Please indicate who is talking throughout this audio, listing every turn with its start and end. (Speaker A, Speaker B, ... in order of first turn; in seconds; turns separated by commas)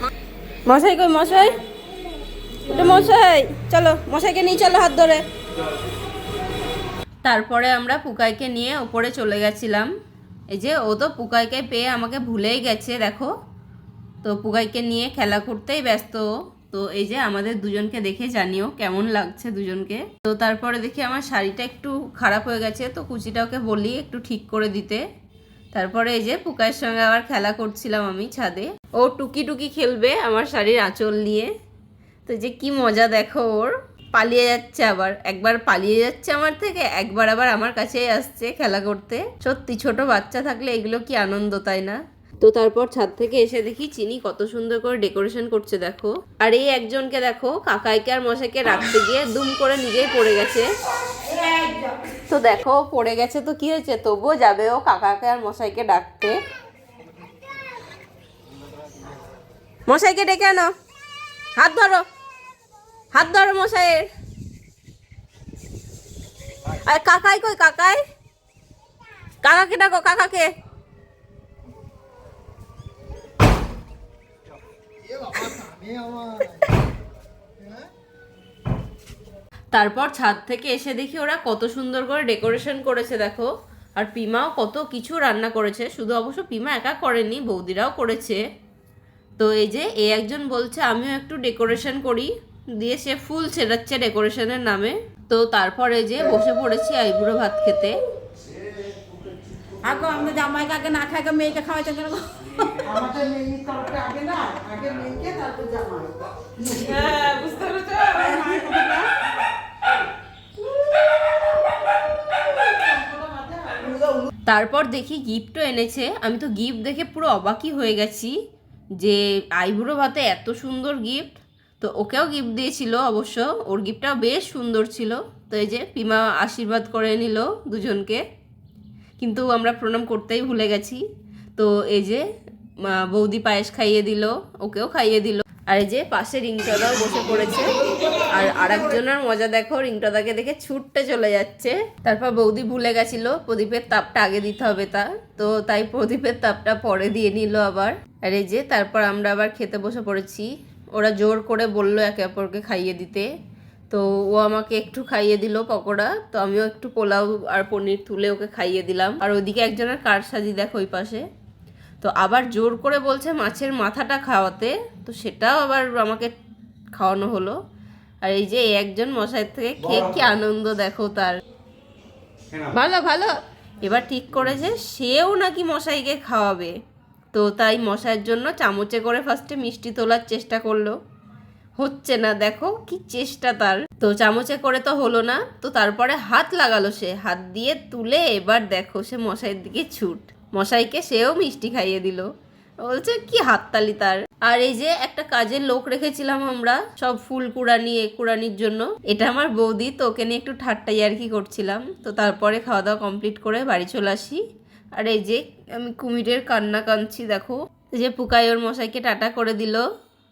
Speaker A: 0.7-1.6, Speaker A: 2.6-5.2, Speaker A: 7.2-9.9, Speaker A: 10.5-13.3, Speaker A: 14.2-25.0, Speaker A: 25.7-31.5, Speaker A: 32.3-50.7, Speaker B: 51.2-52.1, Speaker A: 52.2-56.4, Speaker A: 59.9-60.7, Speaker A: 61.5-62.0, Speaker A: 63.1-64.1, Speaker A: 66.8-68.0, Speaker A: 69.4-70.5, Speaker C: 75.1-76.6, Speaker A: 79.7-88.4, Speaker A: 89.4-98.0, Speaker B: 99.8-102.7, Speaker C: 102.8-107.0, Speaker B: 106.9-109.1, Speaker A: 107.5-108.0, Speaker C: 112.7-114.3, Speaker A: 114.5-118.4, Speaker A: 119.0-128.2, Speaker A: 129.2-131.0, Speaker A: 131.6-132.2, Speaker A: 132.8-153.3, Speaker A: 153.9-161.2, Speaker A: 162.0-166.3, Speaker A: 166.9-167.6, Speaker A: 168.2-171.4, Speaker A: 172.7-176.8, Speaker A: 177.3-181.0, Speaker A: 181.8-192.3, Speaker A: 192.8-204.4, Speaker A: 205.0-209.8